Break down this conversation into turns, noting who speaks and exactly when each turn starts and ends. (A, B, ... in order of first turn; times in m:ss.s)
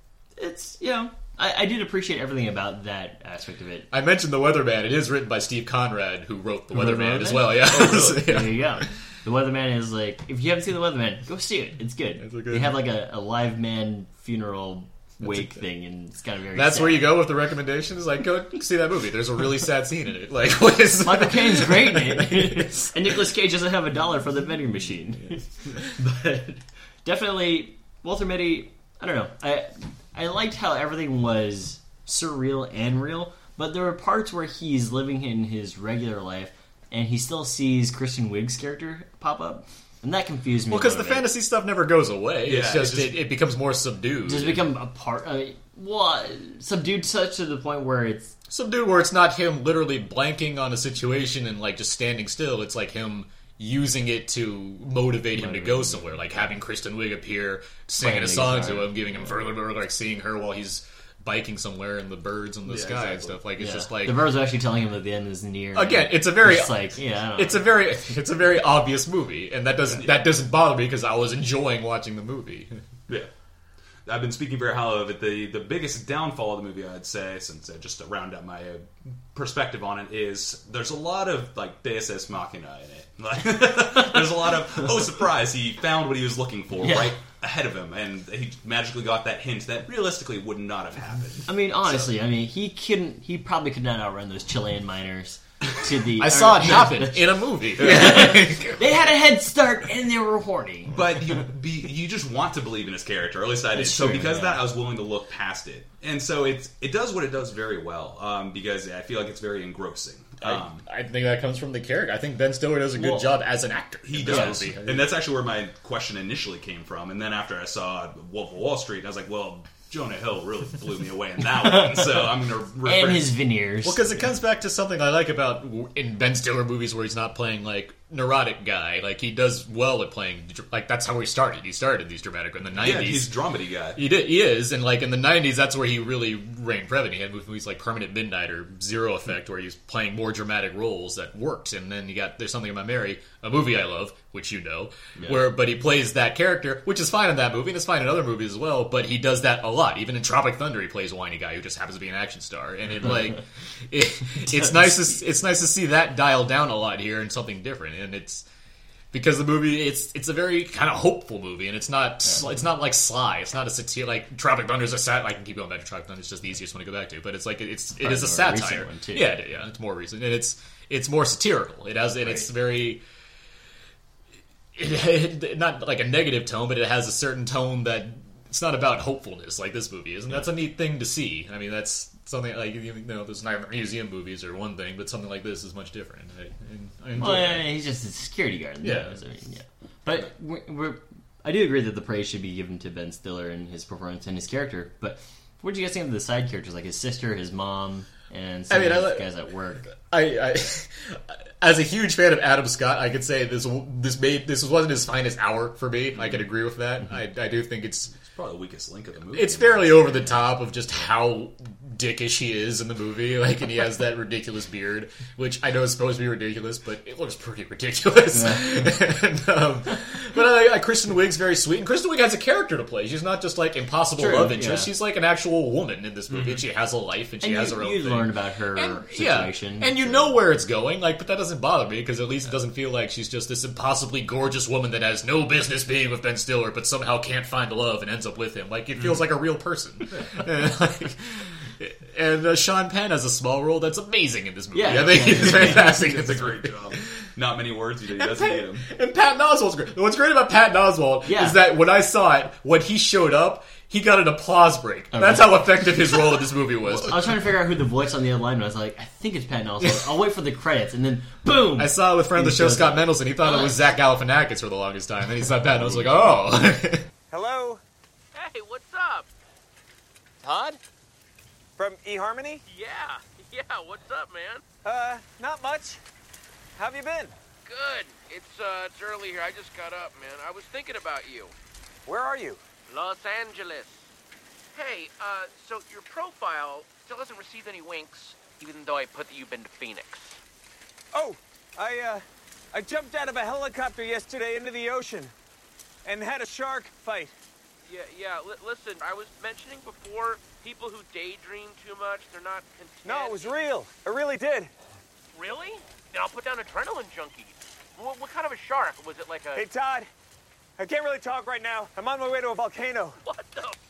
0:00.4-0:03.9 A
0:03.9-0:08.8 B
0:06.7-0:17.1 A
0:07.5-0:08.4 C
0:12.2-0:12.8 B
0:15.2-0:15.6 B
0:16.5-0:22.9 B
0:21.0-0:41.3 A
0:40.7-0:44.6 B
0:42.4-0:43.2 C
0:44.2-0:48.3 A
0:48.5-1:04.2 B
0:55.3-0:56.2 A
0:58.0-0:59.4 A
1:02.6-1:03.4 C
1:03.6-1:07.8 A
1:05.7-1:12.8 B
1:09.9-1:10.3 C
1:14.0-1:32.1 C
1:26.8-1:27.1 A
1:31.4-1:40.9 A
1:36.2-1:38.8 B
1:40.9-1:50.8 C
1:43.7-1:44.6 A
1:50.4-1:55.1 B
1:53.0-1:53.3 A
1:54.0-2:03.3 C
1:54.2-1:54.6 A
2:01.6-2:02.3 A
2:02.8-2:04.0 A
2:03.8-2:13.3 B
2:12.7-2:14.0 C
2:13.9-2:38.4 B
2:33.0-2:33.4 A
2:34.5-2:35.1 A
2:39.1-2:53.0 B
2:42.2-2:42.5 A
2:48.0-2:49.3 A
2:52.2-2:52.5 A
2:54.7-3:07.7 B
3:07.2-3:19.9 A
3:08.8-3:09.2 B
3:18.7-3:19.2 B
3:19.9-3:28.1 B
3:28.1-3:30.5 C
3:29.3-4:07.1 B
3:38.3-3:38.9 A
3:44.2-3:44.9 A
3:46.3-3:46.6 C
3:47.4-3:50.4 A
4:04.7-4:05.9 A
4:04.9-4:08.9 C
4:08.2-4:17.4 B
4:11.2-4:11.6 A
4:15.1-4:16.2 A
4:17.0-4:23.7 A
4:19.8-4:20.1 B
4:21.8-4:27.0 B
4:27.3-4:27.8 D
4:28.3-4:29.3 E
4:30.4-4:30.8 D
4:31.8-4:32.6 D
4:32.7-4:34.6 E
4:34.8-4:36.0 D
4:36.8-4:37.3 D
4:37.6-4:41.5 E
4:42.0-4:42.6 D
4:42.9-4:44.1 E
4:44.7-4:50.4 E
4:51.1-4:55.3 D
4:56.0-4:57.3 D
4:57.9-5:03.6 E
5:03.0-5:04.7 D
5:05.3-5:09.6 E
5:09.5-5:10.1 D
5:10.8-5:13.2 D
5:13.2-5:13.8 E